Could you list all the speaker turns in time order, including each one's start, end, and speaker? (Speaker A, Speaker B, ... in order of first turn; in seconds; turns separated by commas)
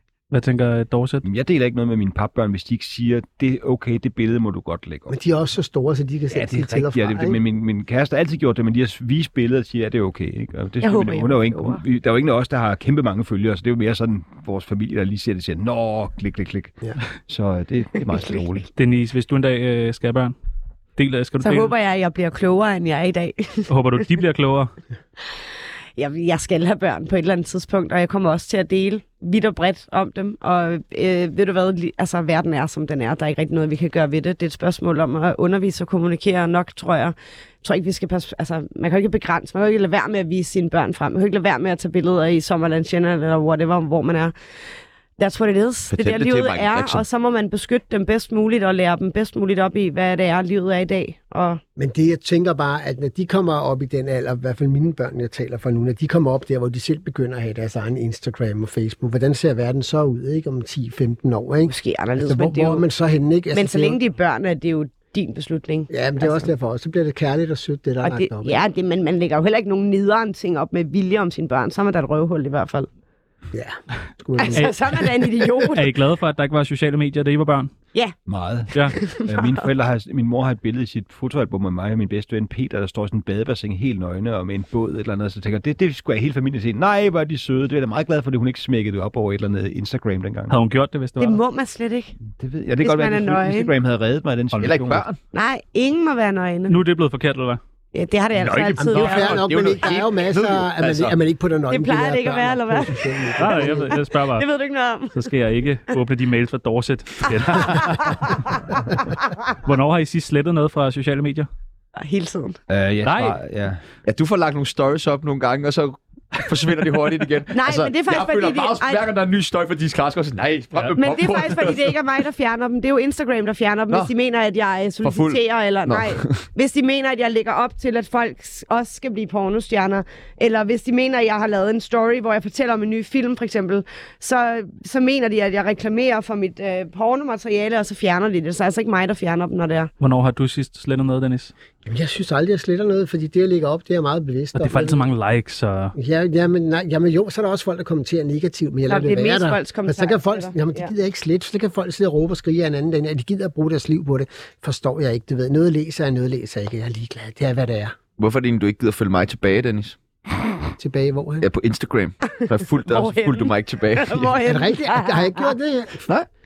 Speaker A: 0.3-1.2, Speaker B: 1.2-5.2, Speaker C: 5.1-7.4, Speaker B: 6.3-18.7, Speaker D: 10.8-11.8, Speaker A: 18.8-20.4, Speaker A: 21.0-21.7, Speaker D: 21.4-23.7, Speaker A: 23.7-24.7, Speaker D: 26.0-44.3, Speaker D: 45.2-51.6, Speaker E: 45.9-47.0, Speaker C: 51.8-64.0, Speaker D: 61.7-62.8, Speaker D: 63.5-66.5, Speaker C: 65.9-68.6, Speaker D: 68.0-72.9, Speaker C: 73.5-74.7, Speaker D: 74.4-75.9, Speaker A: 75.6-77.7, Speaker B: 78.3-90.5, Speaker D: 78.8-79.7, Speaker A: 90.5-91.4, Speaker D: 91.2-92.1, Speaker B: 92.3-95.0, Speaker D: 92.8-93.7, Speaker E: 94.6-95.2, Speaker D: 95.3-96.8, Speaker A: 96.7-97.6, Speaker D: 97.9-99.9, Speaker E: 98.3-101.2, Speaker C: 98.8-104.0, Speaker D: 101.7-105.1, Speaker A: 103.4-104.5, Speaker A: 105.1-108.4, Speaker D: 107.5-108.4, Speaker A: 109.6-111.5, Speaker D: 112.0-112.6, Speaker B: 112.7-113.8, Speaker A: 113.0-113.4, Speaker E: 114.0-122.0, Speaker D: 117.5-119.0, Speaker D: 121.0-139.9, Speaker E: 125.0-126.4, Speaker A: 140.0-141.5, Speaker C: 141.8-145.1, Speaker A: 144.5-145.9, Speaker C: 146.0-158.0, Speaker D: 148.9-150.9, Speaker E: 158.2-160.0, Speaker C: 160.8-161.5, Speaker E: 161.4-164.3, Speaker D: 162.3-165.5, Speaker C: 164.4-166.1